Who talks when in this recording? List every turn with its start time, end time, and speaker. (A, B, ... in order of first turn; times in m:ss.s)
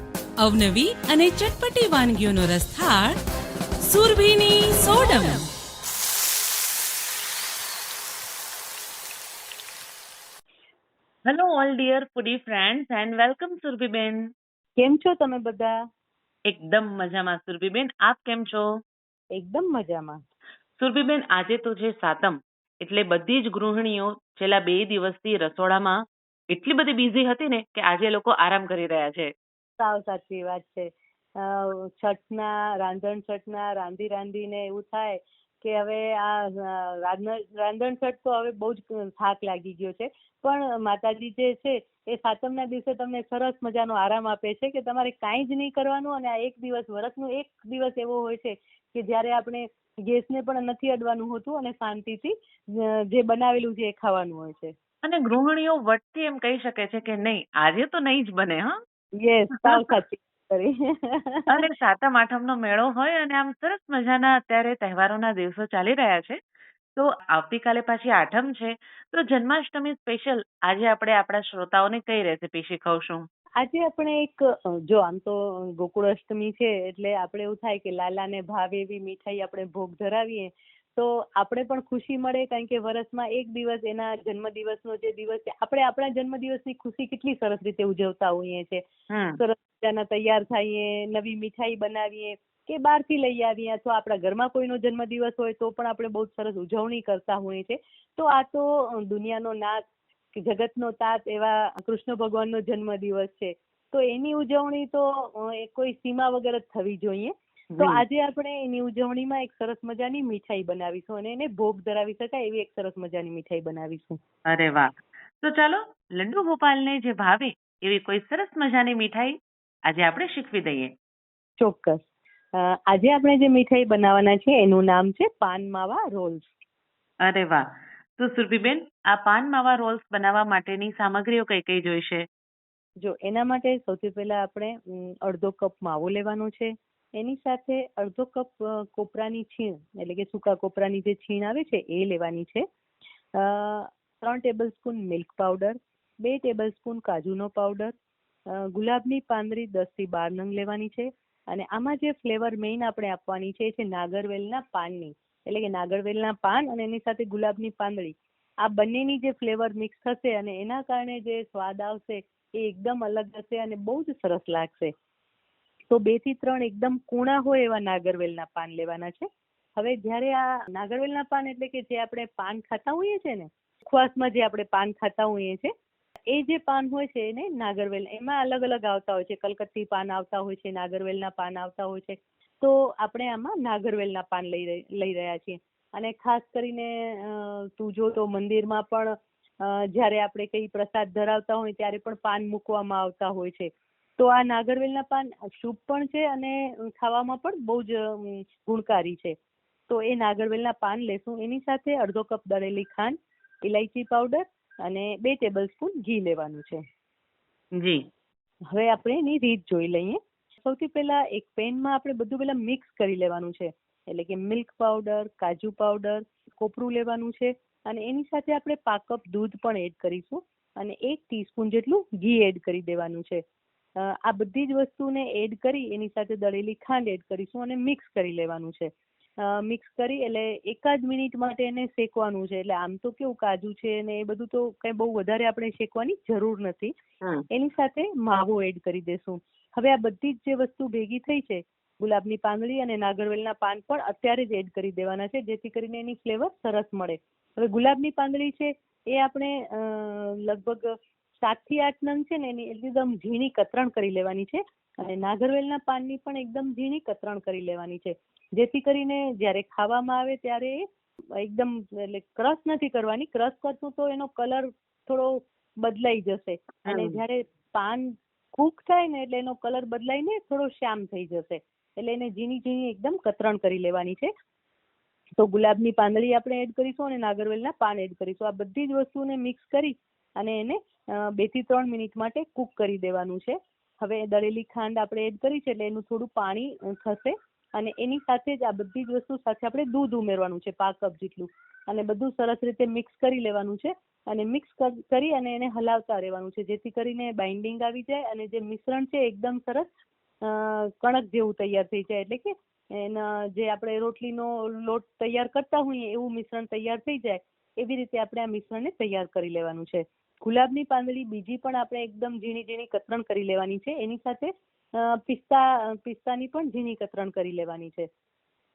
0:00.5-0:03.1 A
0:03.8-0:05.4 A
0:11.3-0:14.3 B
0:14.8-0:15.8 C
0:16.4-0:18.7 B
0:19.3-0:20.2 C
0:20.8-0:26.0 B
0:26.5-0:29.3 B
0:29.8-0:54.7 C
0:55.0-0:58.8 B
0:59.2-1:01.5 C
0:59.6-0:59.9 B
1:01.5-1:06.4 B
1:07.0-1:13.3 B
1:13.6-1:28.8 C
1:29.1-1:29.4 B
1:29.4-1:54.2 C
1:54.5-1:59.4 B
1:59.9-2:00.9 B
2:01.6-2:02.0 C
2:02.6-2:06.5 C
2:07.2-2:07.6 B
2:08.2-2:12.3 B
2:13.0-2:22.6 C
2:23.4-2:27.9 C
2:28.5-2:44.9 C
2:45.9-2:55.7 C
2:56.3-3:19.4 C
3:19.9-3:26.8 C
3:27.8-3:28.0 B
3:28.7-3:43.4 C
3:44.0-3:56.9 C
3:57.5-4:20.8 C
4:21.4-4:34.3 C
4:26.8-4:27.2 B
4:35.4-4:59.9 C
5:00.4-5:18.1 C